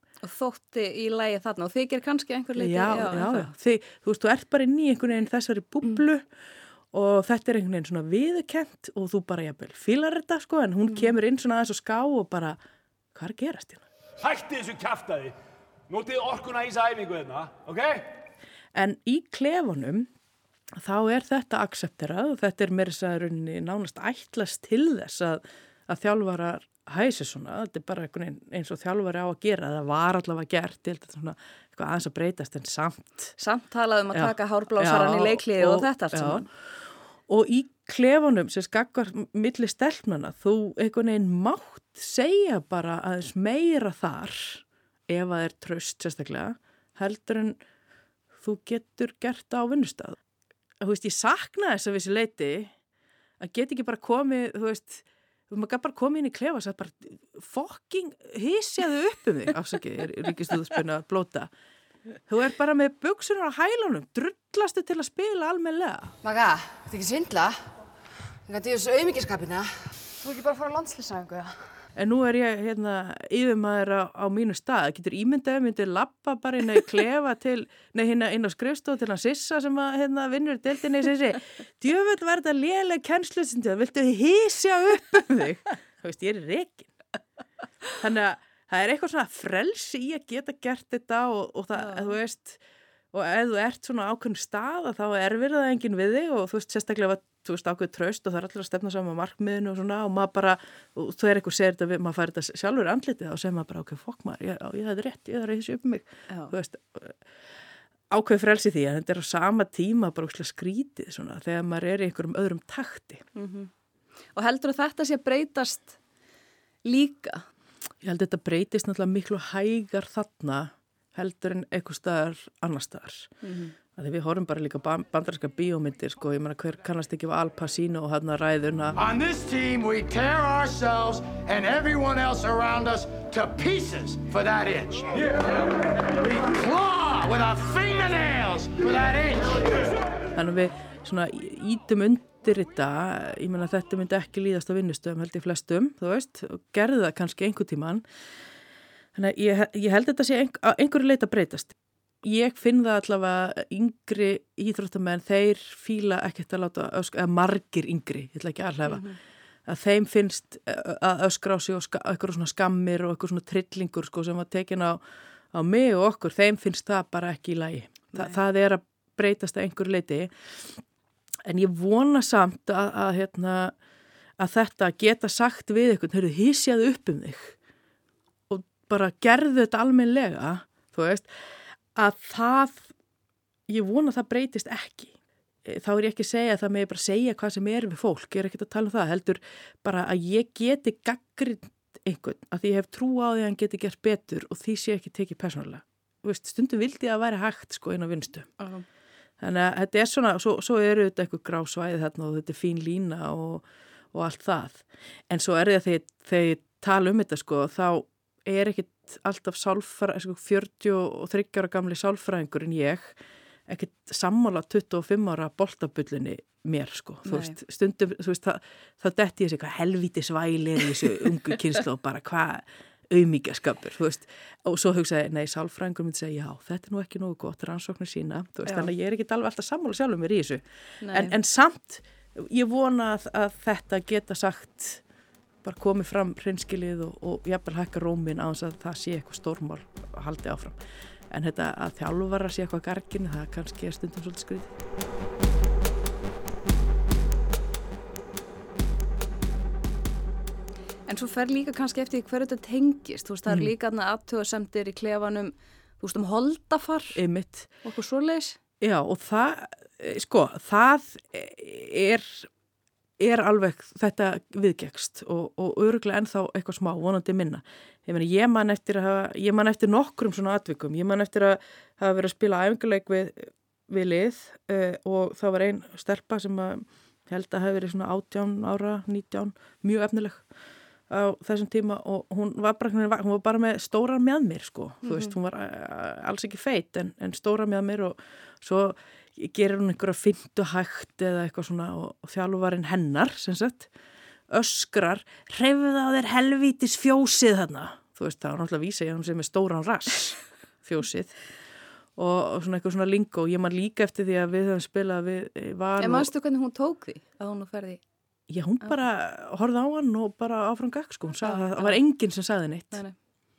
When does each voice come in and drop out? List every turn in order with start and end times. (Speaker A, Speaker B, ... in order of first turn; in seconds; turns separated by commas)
Speaker A: 0.2-3.5, Speaker B: 2.5-6.2, Speaker B: 6.9-12.6, Speaker B: 13.1-13.8, Speaker C: 14.2-15.3, Speaker C: 15.9-18.0, Speaker B: 18.7-20.1, Speaker B: 20.8-33.3, Speaker A: 33.4-36.5, Speaker B: 34.1-36.5, Speaker B: 37.3-47.6, Speaker B: 48.4-50.2, Speaker B: 50.8-52.7, Speaker B: 53.4-61.5, Speaker B: 62.3-66.1, Speaker D: 66.2-67.7, Speaker D: 68.5-71.5, Speaker B: 72.0-86.9, Speaker B: 87.9-92.6, Speaker A: 91.8-92.1, Speaker B: 93.1-107.2, Speaker B: 108.1-113.2, Speaker A: 113.3-113.7, Speaker A: 114.3-116.0, Speaker A: 116.8-117.5, Speaker B: 118.0-123.3, Speaker A: 123.4-123.7, Speaker B: 124.0-128.9, Speaker E: 128.9-139.9, Speaker B: 140.3-148.0, Speaker B: 149.1-159.1, Speaker A: 158.8-159.2, Speaker B: 159.7-165.0, Speaker B: 165.5-170.8, Speaker B: 171.4-173.7, Speaker B: 174.4-177.6, Speaker B: 178.5-181.3, Speaker B: 181.9-182.9, Speaker B: 183.7-185.1, Speaker B: 185.6-198.5, Speaker A: 198.6-198.8, Speaker B: 199.4-213.2, Speaker B: 213.7-235.0, Speaker A: 217.2-217.5, Speaker A: 228.7-228.9, Speaker A: 231.0-231.3, Speaker B: 235.6-240.8, Speaker B: 241.3-244.7, Speaker A: 251.1-257.2, Speaker B: 257.1-257.7, Speaker A: 257.8-258.6, Speaker B: 258.8-262.5, Speaker B: 263.2-280.4, Speaker B: 281.1-293.9, Speaker A: 285.0-285.3, Speaker B: 294.5-301.3, Speaker B: 302.1-306.3, Speaker A: 306.0-308.0, Speaker B: 308.5-313.0, Speaker A: 311.4-312.0